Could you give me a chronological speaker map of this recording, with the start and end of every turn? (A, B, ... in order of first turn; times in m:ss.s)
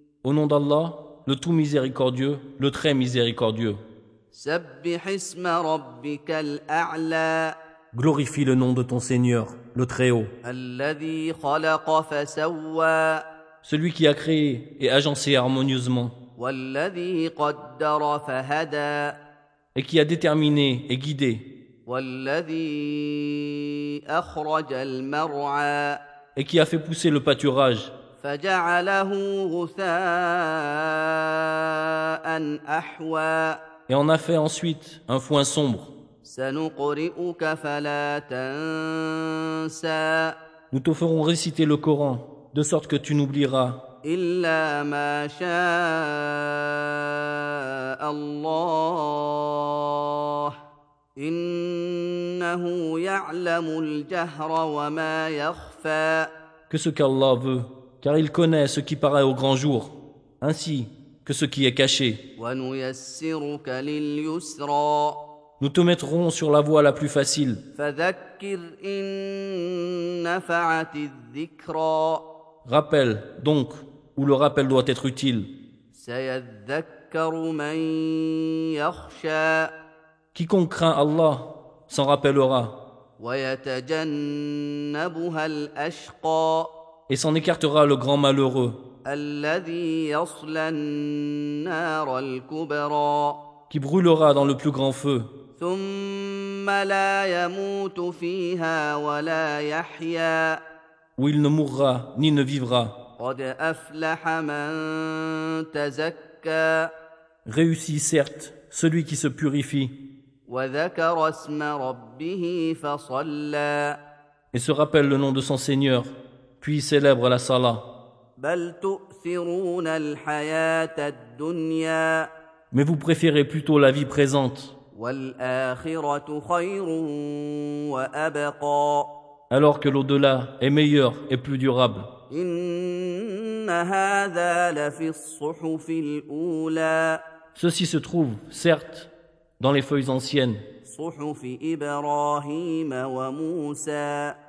0:00.2-0:03.8 A
0:04.3-0:07.5 B
0:07.9-0:10.3 A
0:10.4-0:13.2 B
0:13.6-0:16.1 A
0:16.4-0:19.2 B
0:19.7-0:21.4 A
0:21.9-0:26.0 B
0:26.4-0:27.9 A
0:28.2-0:33.6 B
0:33.9-0:35.9 A
0:36.2-0:40.4 B
0:40.7-0:43.8 A
0:44.0-0:50.5 B
0:51.2-0:56.3 B
0:56.7-1:02.2 A
1:02.4-1:05.2 B
1:05.6-1:07.6 A
1:07.8-1:12.2 B
1:12.6-1:15.5 A
1:15.9-1:19.7 B
1:20.3-1:22.8 A
1:23.2-1:26.7 B
1:27.1-1:28.8 A
1:29.1-1:33.4 B
1:33.7-1:35.3 A
1:35.6-1:40.6 B
1:41.2-1:43.0 A
1:43.2-1:46.9 B
1:47.4-1:49.9 A
1:50.5-1:54.0 B
1:54.5-1:57.8 A
1:58.4-2:02.3 B
2:02.7-2:04.7 A
2:04.9-2:09.1 B
2:09.5-2:12.1 A
2:12.3-2:17.2 B
2:17.5-2:20.6 A
2:20.8-2:24.4 B